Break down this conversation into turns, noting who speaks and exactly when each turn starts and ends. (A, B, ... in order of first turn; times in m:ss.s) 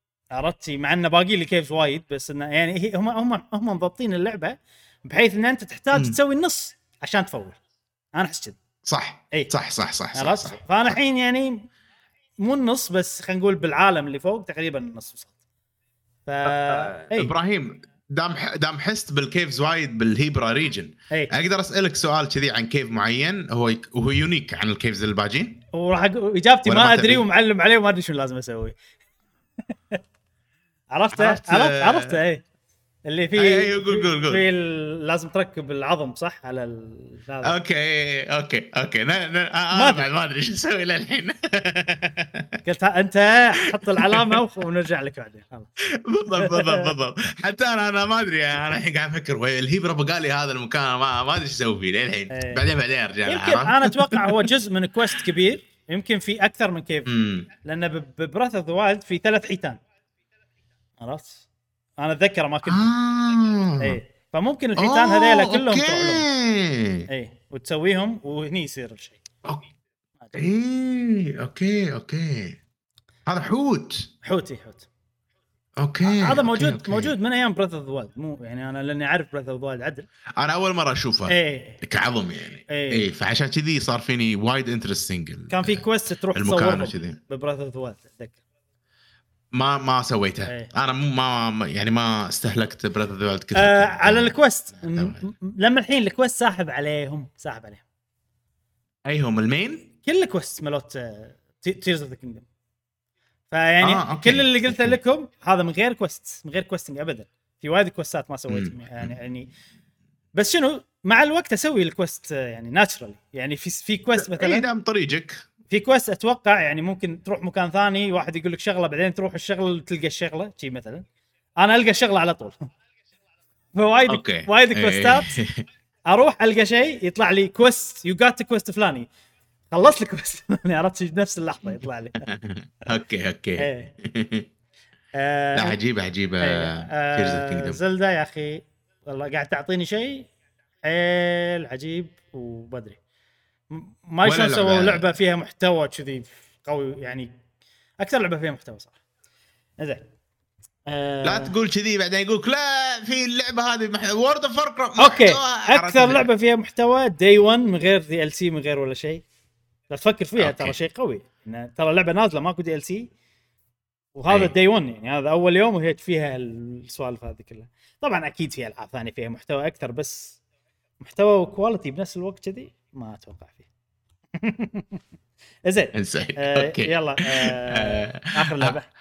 0:00.3-0:07.6 A
0:08.2-0:08.6 A
0:08.8-0:11.0 B
0:10.1-0:11.7 A
0:12.4-0:15.3 A
0:16.3-0:17.3 A
0:16.4-0:25.6 B
0:25.7-0:28.8 A
0:26.6-0:27.2 B
0:30.9-0:32.4 A
0:31.1-0:32.2 B
0:33.1-0:37.6 A
0:33.4-0:34.4 B
0:37.4-0:42.6 B
0:39.7-0:40.0 A
0:42.6-0:45.8 A
0:43.9-0:44.3 B
0:45.9-0:54.5 B
0:46.4-0:46.9 A
0:52.3-0:52.6 A
0:53.3-0:57.1 A
0:57.1-0:57.5 B
0:57.6-0:59.8 A
1:01.0-1:01.4 A
1:02.0-1:02.9 A
1:02.7-1:04.0 B
1:03.8-1:06.3 A
1:04.8-1:07.1 B
1:07.1-1:09.2 A
1:10.2-1:10.5 A
1:10.3-1:12.6 B
1:13.3-1:14.1 B
1:14.2-1:14.9 A
1:15.8-1:17.1 B
1:16.0-1:20.1 A
1:20.4-1:27.2 B
1:21.3-1:21.8 A
1:22.7-1:23.1 A
1:25.5-1:28.4 A
1:29.5-1:35.2 B
1:33.6-1:37.8 A
1:39.1-1:39.9 B
1:40.0-1:42.5 A
1:43.5-1:49.5 A
1:43.8-1:45.0 B
1:48.5-1:49.1 B
1:50.4-1:54.7 A
1:54.2-1:55.4 B
1:55.7-2:01.0 A
2:01.6-2:02.6 A
2:03.7-2:05.4 A
2:04.1-2:05.6 B
2:06.1-2:09.1 A
2:09.7-2:12.3 A
2:12.2-2:14.5 B
2:13.6-2:13.9 A
2:15.2-2:15.8 A
2:15.6-2:17.8 B
2:16.4-2:20.3 A
2:20.8-2:23.0 A
2:23.7-2:27.3 A
2:24.2-2:25.0 B
2:28.0-2:29.0 A
2:29.8-2:30.1 A
2:30.9-2:31.5 A
2:31.2-2:36.3 B
2:35.0-2:39.2 A
2:39.9-2:43.1 A
2:40.4-2:40.8 B
2:44.2-2:50.4 A
2:51.0-2:53.6 A
2:54.4-2:55.0 A
2:55.7-2:58.9 A
2:55.9-2:58.8 B